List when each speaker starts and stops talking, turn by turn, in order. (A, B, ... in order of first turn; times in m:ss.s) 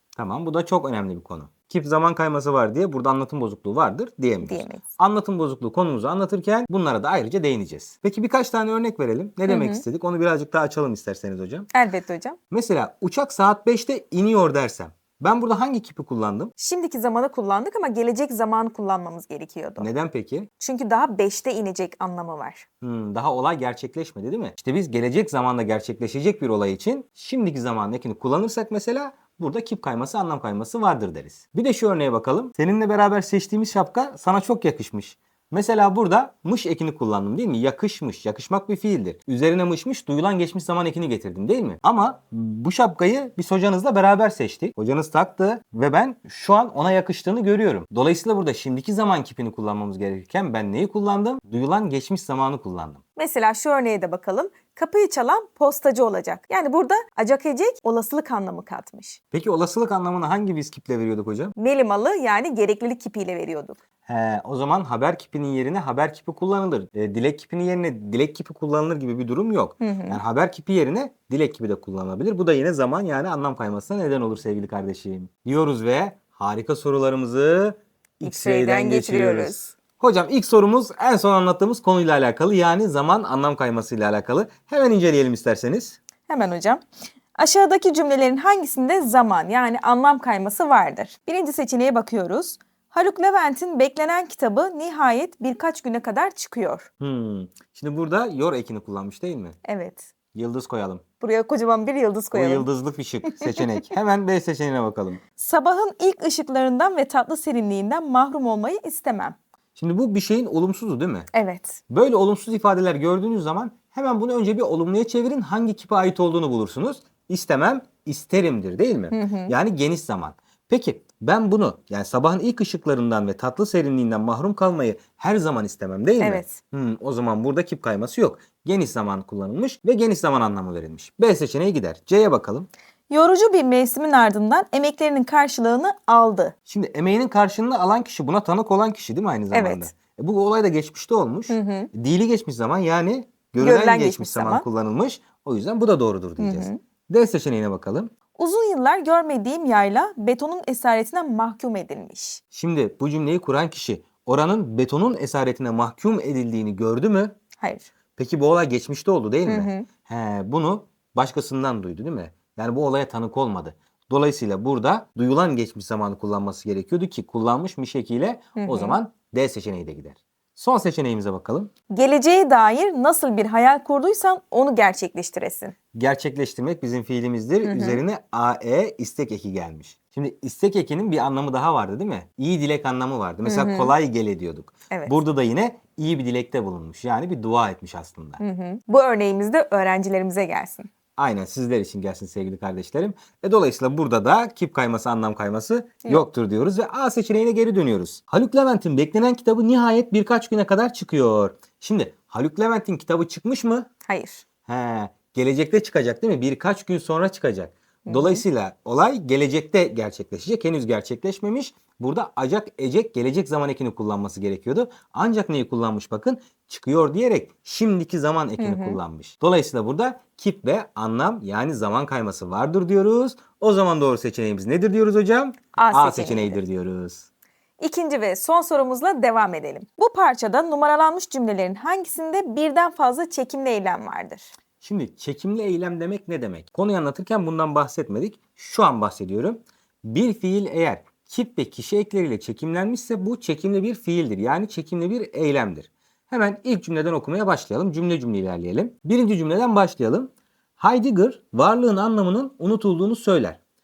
0:00.2-0:11.7 A
0:04.4-0:04.8 B
0:09.5-0:09.8 B
0:11.7-0:12.4 B
0:12.5-0:16.5 A
0:16.6-0:19.9 B
0:19.8-0:20.5 A
0:20.6-0:22.6 B
0:22.8-0:53.0 A
0:53.2-0:59.2 B
0:59.3-1:01.5 A
1:01.6-1:03.8 B
1:04.0-1:26.0 A
1:09.8-1:10.2 B
1:18.2-1:19.7 B
1:26.3-1:26.8 B
1:27.3-1:36.9 B
1:37.0-1:39.6 A
1:39.6-1:40.1 B
1:40.3-1:41.0 A
1:41.2-1:42.7 B
1:42.3-1:45.2 A
1:43.3-1:43.6 B
1:45.4-1:49.4 B
1:49.8-1:51.3 A
1:51.3-1:51.8 B
1:51.9-2:12.7 A
1:59.1-1:59.5 B
2:06.2-2:06.6 B
2:13.1-2:16.5 B
2:16.7-2:28.1 A
2:19.5-2:19.9 B
2:21.5-2:21.9 B
2:23.6-2:24.6 B
2:26.4-2:26.8 B
2:28.3-2:32.4 B
2:32.5-2:37.4 A
2:37.6-2:37.9 B
2:38.2-2:51.7 A
2:39.4-2:39.9 B
2:48.6-2:49.0 B
2:51.9-2:55.7 B
2:55.9-3:08.4 A
2:57.6-2:58.0 B
3:03.4-3:03.9 B
3:04.9-3:05.1 B
3:08.4-3:10.9 B
3:11.2-3:23.9 A
3:24.0-3:24.4 B
3:24.6-3:47.3 A
3:28.0-3:28.4 B
3:38.6-3:39.0 B
3:45.8-3:46.6 B
3:47.8-3:54.5 B
3:54.8-4:13.6 A